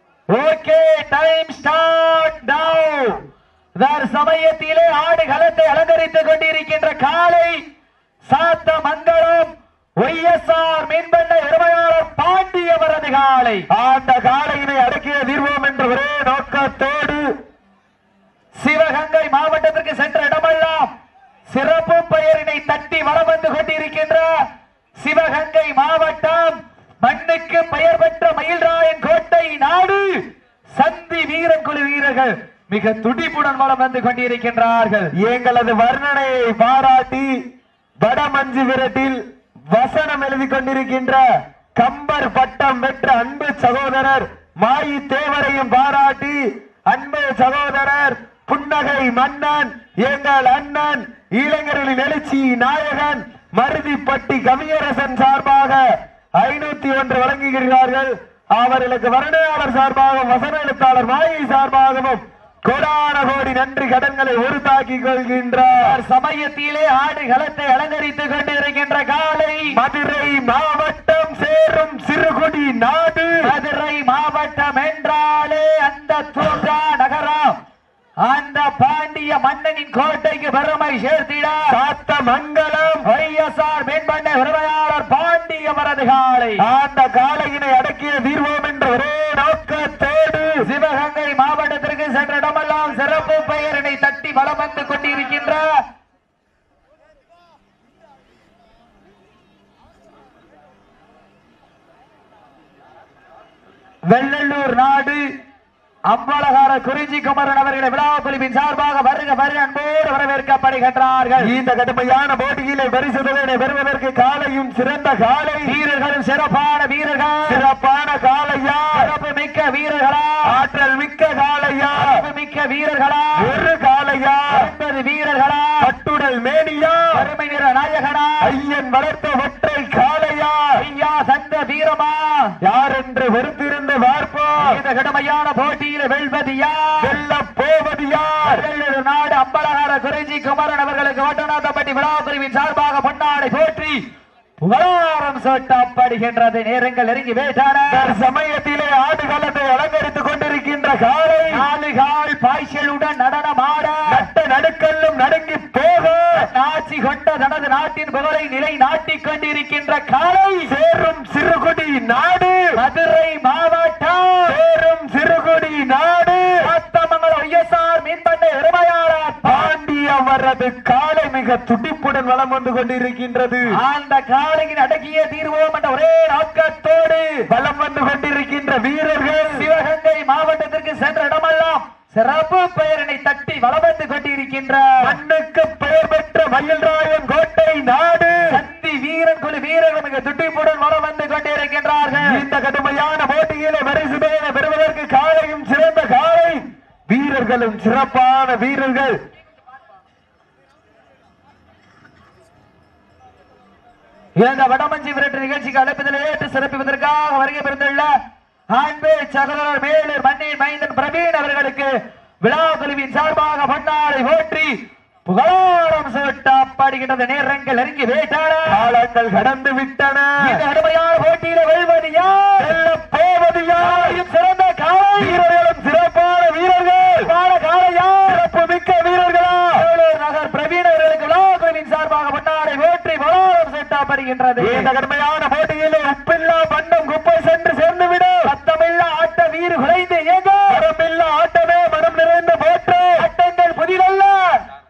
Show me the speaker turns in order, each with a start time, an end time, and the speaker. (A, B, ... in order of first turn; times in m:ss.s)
0:00.3-0:03.2 A
0:03.8-0:07.6 A
0:08.2-0:13.6 A
0:13.7-0:17.3 B
0:18.6-0:20.9 A
0:21.5-0:24.3 A
0:25.0-0:30.2 A
0:30.8-0:35.1 A
0:35.2-0:37.3 B
0:38.0-0:39.2 B
0:39.7-0:41.2 B
0:41.8-0:55.8 B
0:56.4-1:05.8 B
1:05.8-1:09.8 A
1:09.7-1:13.3 B
1:13.4-1:17.6 A
1:18.2-1:21.7 A
1:21.7-1:23.0 B
1:23.0-1:26.6 A
1:26.6-1:30.6 B
1:30.6-1:35.7 A
1:44.1-1:45.3 A
1:46.1-1:51.5 A
1:51.4-1:55.8 B
1:55.6-1:57.6 A
1:57.5-1:59.1 B
1:58.9-2:00.5 A
2:00.5-2:02.2 B
2:01.9-2:03.5 A
2:03.4-2:04.7 B
2:04.5-2:05.9 A
2:05.8-2:07.2 B
2:07.1-2:08.5 A
2:08.4-2:10.7 B
2:10.8-2:12.6 A
2:12.6-2:14.8 B
2:14.6-2:17.1 A
2:17.0-2:18.6 B
2:18.4-2:24.0 A
2:24.6-2:28.1 A
2:27.9-2:31.6 B
2:31.5-2:34.2 A
2:34.1-2:36.4 B
2:36.3-2:40.7 A
2:40.7-2:42.6 B
2:42.8-2:44.5 A
2:44.5-2:46.5 B
2:46.6-2:49.7 A
2:49.4-2:53.7 B
2:53.7-2:57.5 A
2:57.5-2:59.6 B
2:59.5-3:05.1 A
3:05.0-3:08.4 B
3:08.5-3:12.4 A
3:12.2-3:19.1 B
3:24.4-3:28.1 A
3:28.7-3:31.9 A
3:32.4-3:34.7 A
3:35.2-3:38.8 A
3:38.7-3:40.6 B
3:40.4-3:42.7 A
3:42.6-3:44.2 B
3:43.8-3:45.4 A
3:45.2-3:47.3 B
3:47.2-3:48.4 A
3:48.3-3:49.8 B
3:49.7-3:54.9 A
3:54.6-3:58.5 B
3:58.4-4:00.8 A
4:00.7-4:03.2 B
4:03.2-4:04.5 A